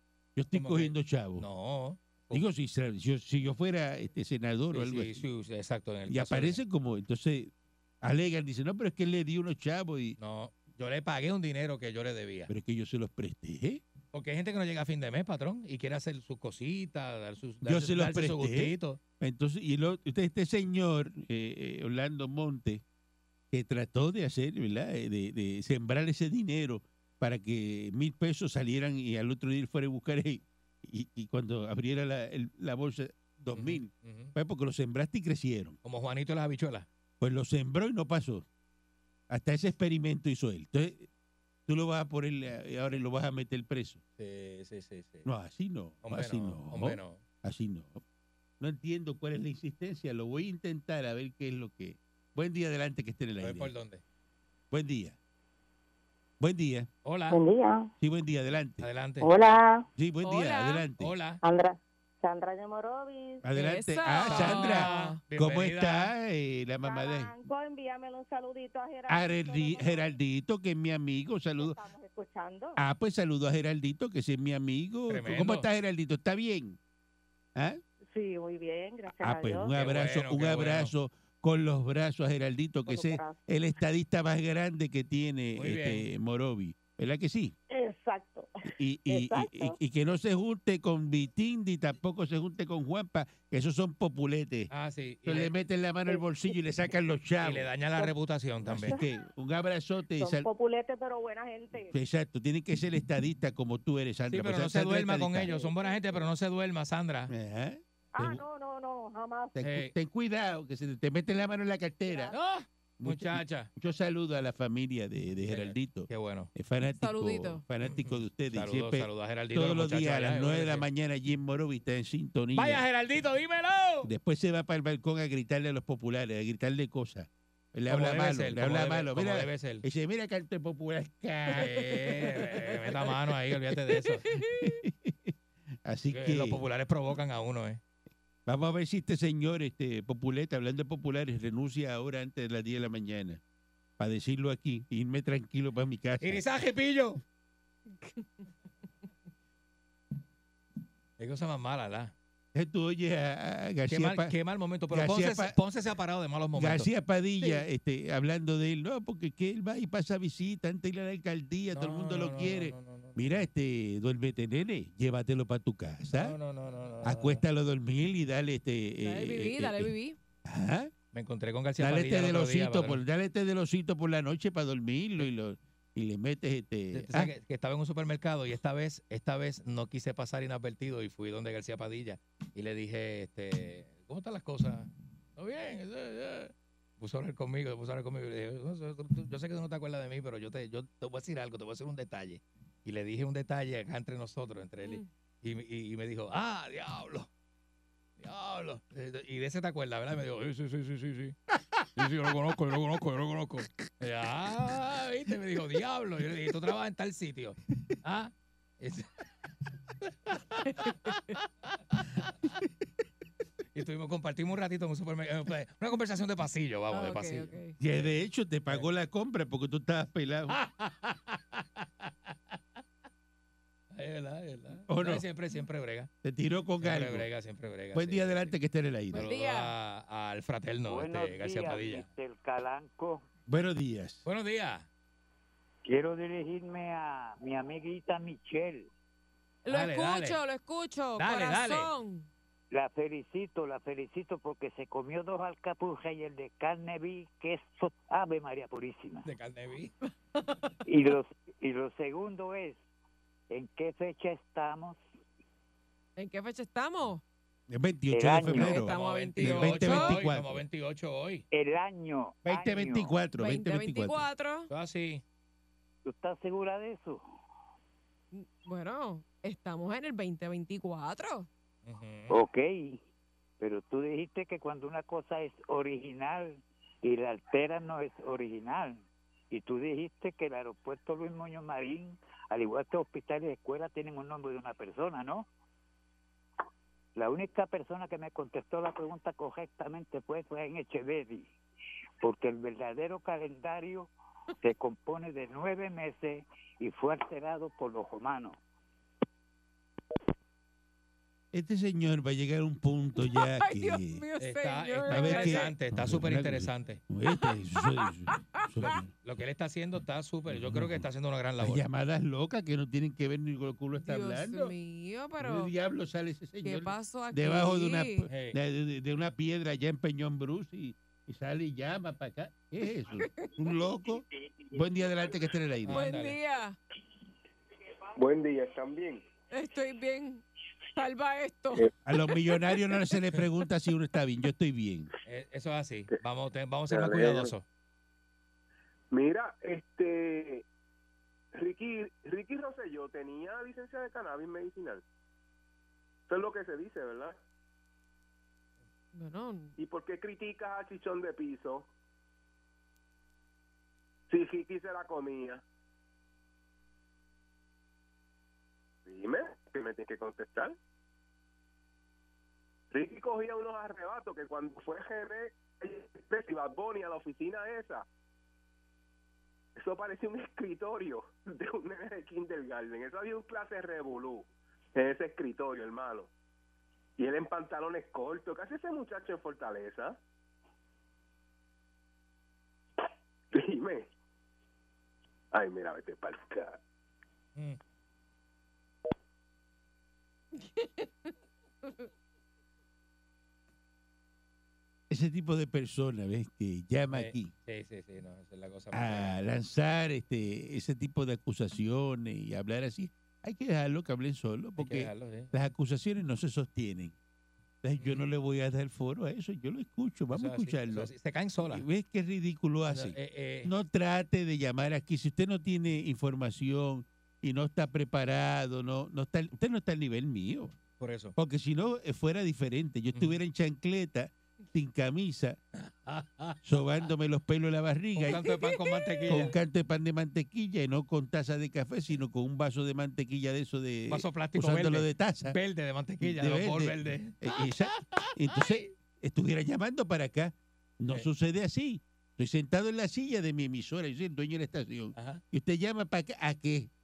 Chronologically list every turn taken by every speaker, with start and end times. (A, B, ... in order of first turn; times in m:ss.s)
0:00.4-0:01.5 A
0:00.5-0:02.4 B
0:02.3-0:05.2 A
0:04.7-0:06.6 B
0:06.1-0:10.2 A
0:10.2-0:12.5 B
0:12.5-0:13.8 A
0:14.1-0:19.0 B
0:17.6-0:22.8 A
0:23.5-0:35.8 A
0:33.5-0:34.3 B
0:35.8-0:36.9 B
0:37.2-0:38.5 A
0:39.3-0:41.1 A
0:41.7-0:44.0 A
0:44.2-0:45.3 B
0:45.2-0:48.0 A
0:46.0-0:47.2 B
0:48.6-0:53.7 A
0:53.4-0:54.0 B
0:54.7-0:55.2 A
0:56.4-0:56.9 A
0:57.0-0:57.4 B
0:57.3-0:57.9 C
0:58.0-0:58.9 A
0:58.8-0:59.3 B
0:59.2-0:59.9 C
1:00.0-1:01.2 A
1:00.2-1:00.8 D
1:01.0-1:01.4 B
1:01.4-1:03.4 C
1:03.4-1:07.3 A
1:03.6-1:05.2 D
1:04.3-1:06.1 B
1:06.8-1:10.1 C
1:09.1-1:11.8 A
1:11.6-1:12.8 C
1:12.8-1:16.8 A
1:15.1-1:15.7 B
1:17.6-1:17.8 A
1:18.1-1:19.7 C
1:19.2-1:27.6 A
1:19.7-1:20.9 B
1:22.9-1:23.4 C
1:25.6-1:26.1 B
1:27.7-1:29.8 C
1:28.8-1:34.7 A
1:34.7-1:35.5 B
1:35.3-1:37.7 A
1:36.1-1:36.5 C
1:37.4-1:39.0 B
1:38.6-1:40.5 A
1:38.8-1:39.1 C
1:40.2-1:41.9 C
1:41.9-1:45.5 A
1:44.3-1:47.3 B
1:45.4-1:46.3 C
1:47.3-1:48.4 A
1:48.1-1:49.6 C
1:49.6-1:52.4 A
1:49.6-1:49.9 B
1:52.1-1:52.4 C
1:52.3-1:53.7 B
1:53.0-2:02.8 A
1:55.5-1:56.5 B
1:57.0-1:57.6 D
1:57.8-2:00.9 B
2:02.5-2:04.1 B
2:04.0-2:13.7 A
2:07.9-2:09.8 B
2:11.5-2:14.2 B
2:14.3-2:14.8 D
2:14.3-2:16.6 A
2:16.1-2:17.8 B
2:18.5-2:23.4 A
2:24.0-2:26.4 A
2:26.2-2:27.2 B
2:31.2-2:32.1 B
2:32.5-2:34.3 A
2:33.9-2:36.9 B
2:34.9-2:35.6 A
2:36.5-2:46.4 A
2:41.7-2:43.5 B
2:46.2-2:47.4 B
2:47.0-2:49.9 A
2:49.0-2:50.2 D
2:50.4-2:50.9 A
2:51.1-2:53.0 B
2:51.8-2:57.3 A
2:56.9-3:17.3 B
3:18.2-3:29.1 B
3:30.3-3:31.1 B
3:30.8-3:31.3 D
3:31.9-3:32.5 B
3:33.8-3:38.1 B
3:36.9-3:37.7 D
3:37.8-3:40.6 A
3:40.5-3:41.8 B
3:43.9-3:46.1 B
3:44.9-3:45.3 A
3:46.2-3:47.3 A
3:46.8-3:48.5 B
3:47.9-3:49.3 A
3:49.1-3:49.7 D
3:49.1-3:52.1 B
3:50.9-3:53.2 E
3:53.5-3:54.2 A
3:54.3-3:54.9 B
3:55.8-3:58.9 E
3:59.6-4:02.3 D
3:59.7-4:00.4 B
4:01.2-4:01.9 B
4:02.7-4:09.3 E
4:09.2-4:09.9 B
4:10.9-4:12.8 E
4:13.5-4:15.0 E
4:16.2-4:17.2 D
4:17.7-4:20.6 A
4:18.1-4:18.8 E
4:18.5-4:20.2 D
4:18.8-4:21.4 B
4:21.5-4:23.2 E
4:22.4-4:24.3 A
4:23.4-4:24.7 D
4:24.7-4:25.2 B
4:26.0-4:27.2 E
4:28.3-4:31.5 D
4:31.9-4:32.4 B
4:32.3-4:33.0 E
4:33.6-4:45.5 E
4:47.2-4:51.5 E
4:52.2-4:54.1 E
4:54.6-4:58.6 E
5:01.5-5:04.2 A
5:03.3-5:05.7 D
5:04.4-5:07.0 B
5:05.1-5:09.1 A
5:07.4-5:08.6 D
5:08.8-5:11.8 B
5:10.5-5:11.1 A
5:11.6-5:14.7 A
5:14.0-5:15.7 D
5:15.4-5:26.0 A
5:16.6-5:18.3 D
5:18.3-5:18.6 B
5:23.2-5:23.5 D
5:25.8-5:26.4 B
5:25.9-5:26.8 D
5:28.2-5:29.2 F
5:29.5-5:31.9 D
5:32.0-5:35.1 A
5:35.3-5:37.6 B
5:36.9-5:37.5 F
5:39.1-5:40.7 F
5:41.5-5:45.0 F
5:46.3-5:47.4 F
5:49.1-5:49.8 D
5:49.8-5:51.9 F
5:54.3-5:55.6 F
5:59.1-6:00.8 F
6:02.9-6:08.1 F
6:09.8-6:16.3 F
6:17.2-6:20.2 F
6:23.5-6:24.1 F
6:25.5-6:26.8 F
6:30.6-6:31.1 D
6:35.1-6:37.5 A
6:37.1-6:39.4 B
6:38.9-6:47.2 A
6:44.8-6:45.5 B
6:47.8-6:51.1 A
6:48.0-6:48.2 B
6:50.3-6:51.8 B
6:51.6-7:00.8 A
6:52.9-6:53.7 B
7:01.0-7:01.3 B
7:01.4-7:05.6 A
7:05.8-7:07.0 B
7:06.6-7:08.5 A
7:08.2-7:09.6 B
7:08.6-7:09.1 D
7:09.3-7:15.6 A
7:14.1-7:18.3 B
7:16.2-7:26.9 A
7:25.2-7:25.4 B